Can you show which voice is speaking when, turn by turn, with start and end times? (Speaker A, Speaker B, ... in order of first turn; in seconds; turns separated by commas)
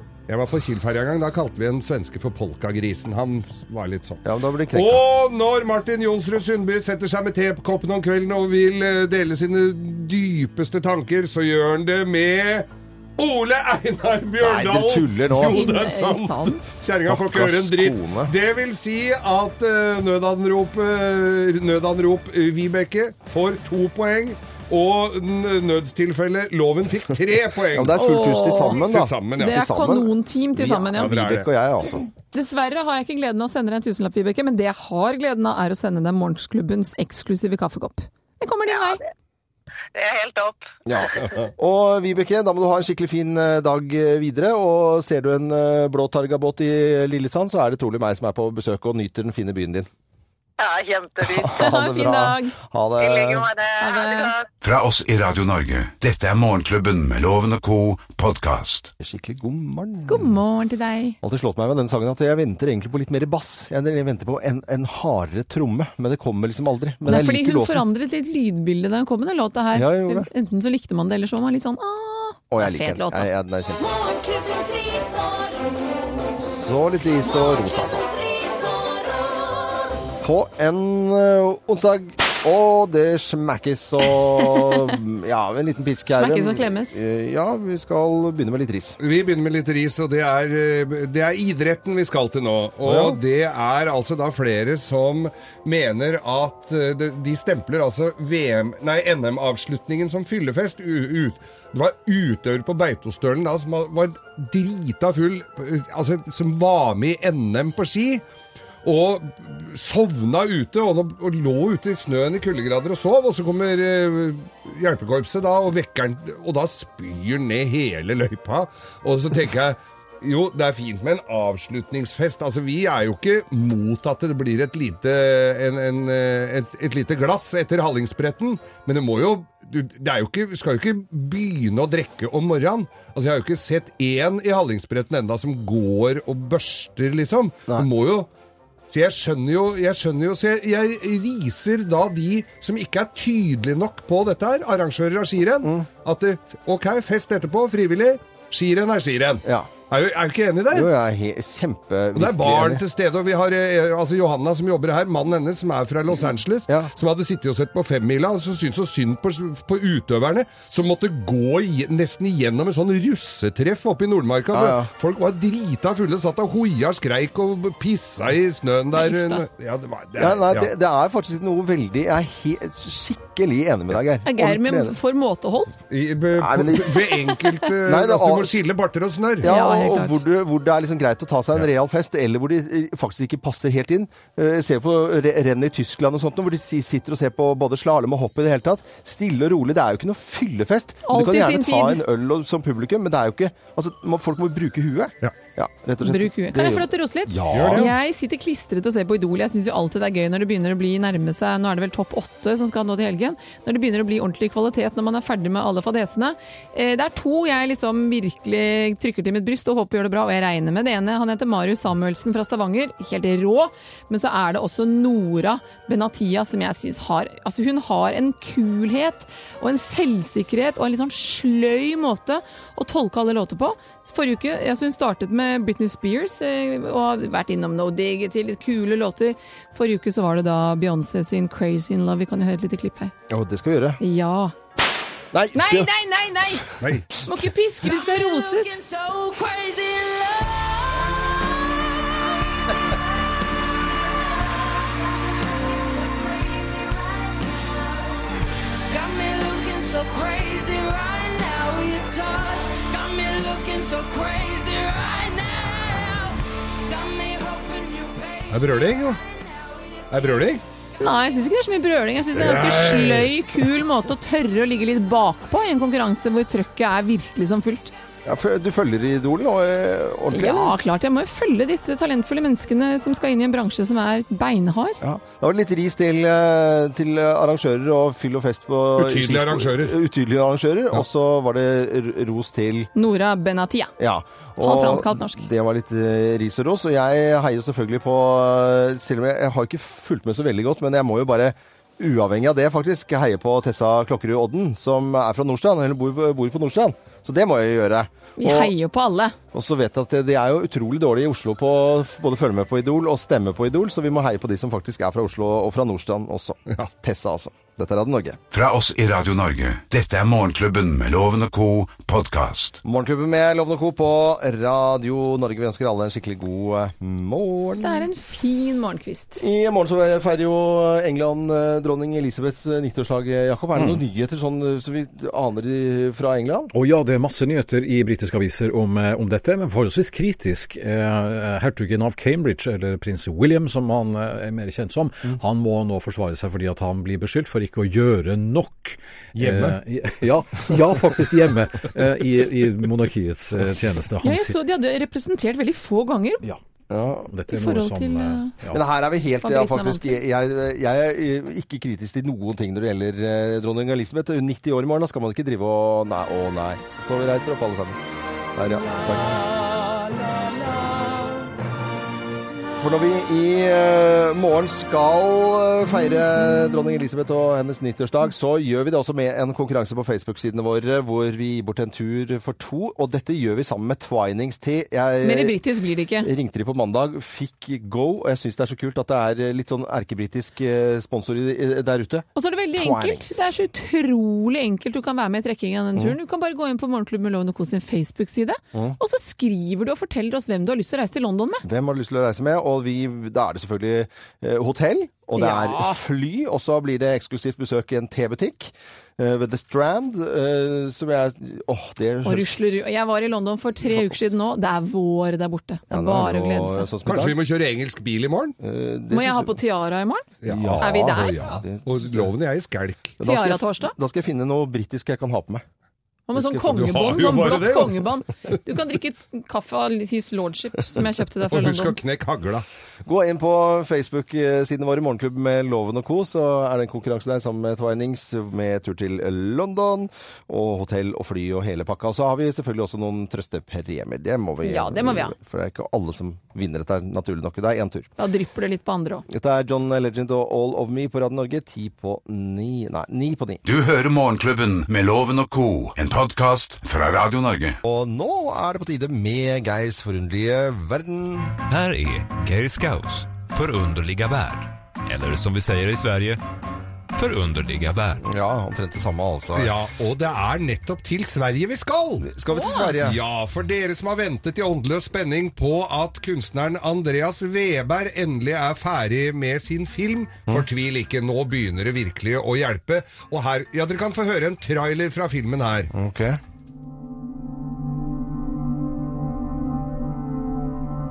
Speaker A: 0.3-4.2, Speaker B: 4.2-5.0, Speaker A: 4.7-28.0, Speaker B: 14.4-15.7, Speaker C: 15.4-16.8, Speaker B: 16.9-18.3, Speaker B: 27.7-32.1, Speaker C: 27.9-28.8, Speaker A: 28.6-29.6, Speaker C: 29.4-31.1, Speaker A: 31.0-31.5, Speaker C: 32.3-39.0, Speaker D: 38.7-39.0, Speaker D: 39.9-41.1, Speaker B: 40.9-49.9, Speaker D: 50.6-51.6, Speaker B: 51.2-53.5, Speaker C: 51.5-52.5, Speaker D: 53.0-54.5, Speaker C: 53.8-54.4, Speaker E: 54.6-58.9, Speaker B: 59.0-60.4, Speaker C: 60.1-61.2, Speaker B: 61.2-67.9, Speaker C: 67.1-73.3, Speaker B: 69.7-70.3, Speaker B: 72.5-73.8, Speaker F: 73.8-76.4, Speaker B: 76.4-78.1, Speaker F: 77.0-80.1, Speaker B: 80.2-89.0, Speaker C: 86.2-87.0, Speaker A: 89.0-108.2, Speaker B: 92.8-93.2, Speaker A: 108.8-138.3, Speaker A: 138.9-150.9, Speaker B: 145.6-145.9, Speaker B: 149.4-149.7, Speaker B: 150.7-152.8, Speaker A: 152.1-170.7, Speaker B: 164.5-164.9, Speaker C: 168.9-169.4, Speaker B: 170.2-175.0, Speaker C: 174.2-175.7, Speaker A: 175.9-179.5, Speaker B: 176.3-178.6, Speaker B: 179.4-197.9, Speaker C: 179.4-180.2, Speaker C: 191.1-192.0, Speaker C: 196.0-233.1, Speaker A: 197.5-197.9, Speaker B: 233.3-234.0, Speaker C: 234.0-234.5, Speaker B: 235.3-235.9, Speaker C: 235.5-238.7, Speaker B: 236.5-236.9, Speaker A: 236.8-237.1, Speaker F: 237.8-260.4, Speaker A: 258.5-259.2, Speaker A: 260.1-260.6, Speaker C: 261.0-267.9, Speaker A: 262.3-263.3, Speaker B: 268.2-270.8, Speaker C: 270.3-275.0, Speaker B: 275.0-282.9, Speaker A: 279.0-279.9, Speaker C: 282.9-283.9, Speaker B: 284.0-298.7, Speaker C: 284.6-285.4, Speaker C: 298.4-299.4, Speaker B: 299.5-308.4, Speaker E: 308.5-312.8, Speaker B: 312.8-318.1, Speaker C: 317.8-319.4, Speaker B: 319.4-326.7, Speaker G: 323.7-324.0, Speaker G: 326.7-344.6, Speaker A: 339.4-339.8, Speaker C: 344.2-346.4, Speaker B: 346.9-347.3, Speaker G: 347.3-348.8, Speaker C: 347.5-348.5, Speaker B: 348.7-358.0, Speaker C: 349.4-350.2, Speaker B: 358.6-359.4, Speaker B: 362.8-375.6, Speaker C: 375.2-376.3, Speaker B: 376.2-383.5, Speaker C: 382.4-391.6, Speaker B: 388.7-389.0, Speaker B: 391.6-402.6, Speaker C: 395.4-396.0, Speaker C: 402.2-406.9, Speaker B: 403.8-404.3, Speaker B: 405.9-407.4, Speaker A: 407.1-408.6, Speaker B: 408.6-409.6, Speaker C: 409.1-411.4, Speaker B: 410.4-412.3, Speaker A: 410.4-413.1, Speaker B: 413.2-415.6, Speaker C: 413.2-413.9, Speaker C: 416.3-422.0, Speaker B: 416.4-417.7, Speaker A: 416.7-418.1, Speaker A: 421.4-422.6, Speaker B: 423.1-438.1, Speaker C: 434.6-435.4, Speaker C: 438.2-439.2, Speaker B: 439.3-443.6, Speaker E: 443.6-447.8, Speaker B: 447.8-451.6, Speaker H: 451.7-456.4, Speaker H: 457.1-458.2, Speaker B: 458.2-459.7, Speaker A: 459.6-462.3, Speaker B: 462.2-463.2, Speaker C: 462.5-462.9, Speaker A: 463.0-475.9, Speaker B: 475.9-476.4